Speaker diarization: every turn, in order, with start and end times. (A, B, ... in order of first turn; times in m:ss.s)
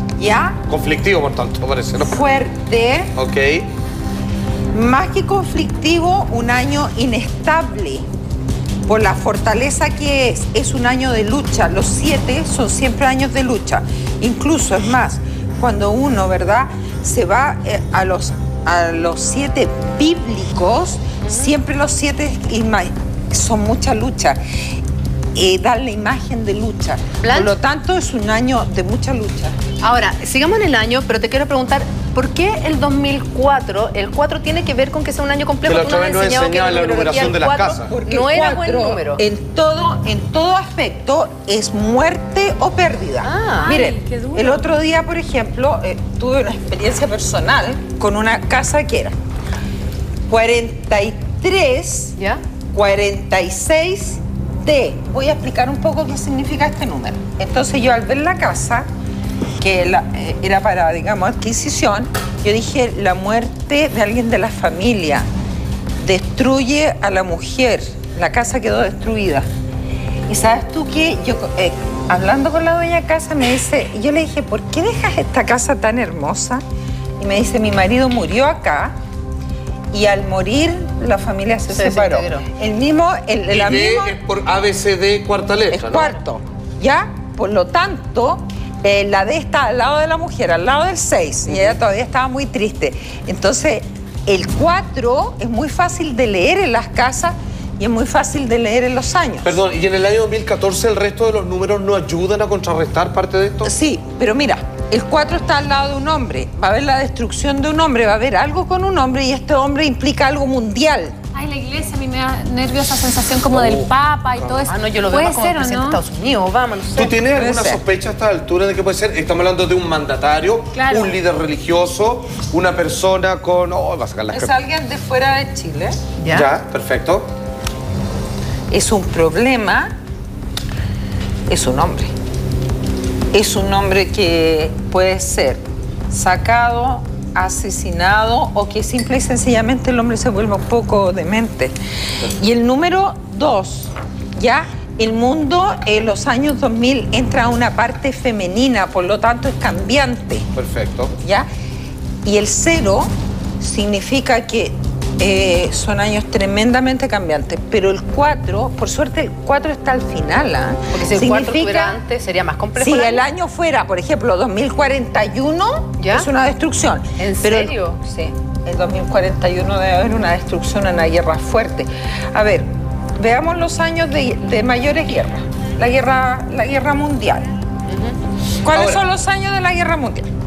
0:00.2-0:00.6 A
0:00.7-0:02.2 B
0:02.0-0:03.1 A
0:03.1-0:03.7 B
0:04.7-0:08.0 A
0:08.9-0:24.4 A
0:21.2-0:21.6 C
0:25.4-0:29.6 A
0:27.2-0:27.5 C
0:29.8-0:39.2 C
0:35.6-0:37.9 B
0:37.9-0:49.1 A
0:43.2-0:43.7 C
0:43.6-0:44.6 D
0:50.3-0:52.2 A
0:52.7-0:58.9 A
0:59.6-1:05.3 A
1:06.0-1:09.5 A
1:10.3-1:16.6 A
1:17.2-1:18.9 A
1:19.9-1:24.2 A
1:21.7-1:22.4 C
1:23.5-1:26.2 B
1:25.7-1:39.6 A
1:39.4-1:43.7 B
1:43.6-1:51.2 A
1:51.4-1:56.0 D
1:53.5-1:54.7 B
1:54.7-1:57.1 C
1:56.9-2:04.6 B
1:57.3-1:57.8 A
2:00.7-2:01.1 D
2:04.3-2:06.0 A
2:06.2-2:06.5 C
2:06.3-2:07.3 B
2:08.7-2:09.9 A
2:11.5-2:12.1 A
2:13.3-2:30.5 A
2:30.6-2:31.1 B
2:31.2-2:31.5 A
2:32.2-2:42.0 A
2:40.9-2:43.2 C
2:42.8-2:57.6 A
2:46.0-2:46.3 C
2:47.2-2:48.0 C
2:57.9-2:58.2 C
2:58.6-3:00.3 A
2:58.7-2:59.0 B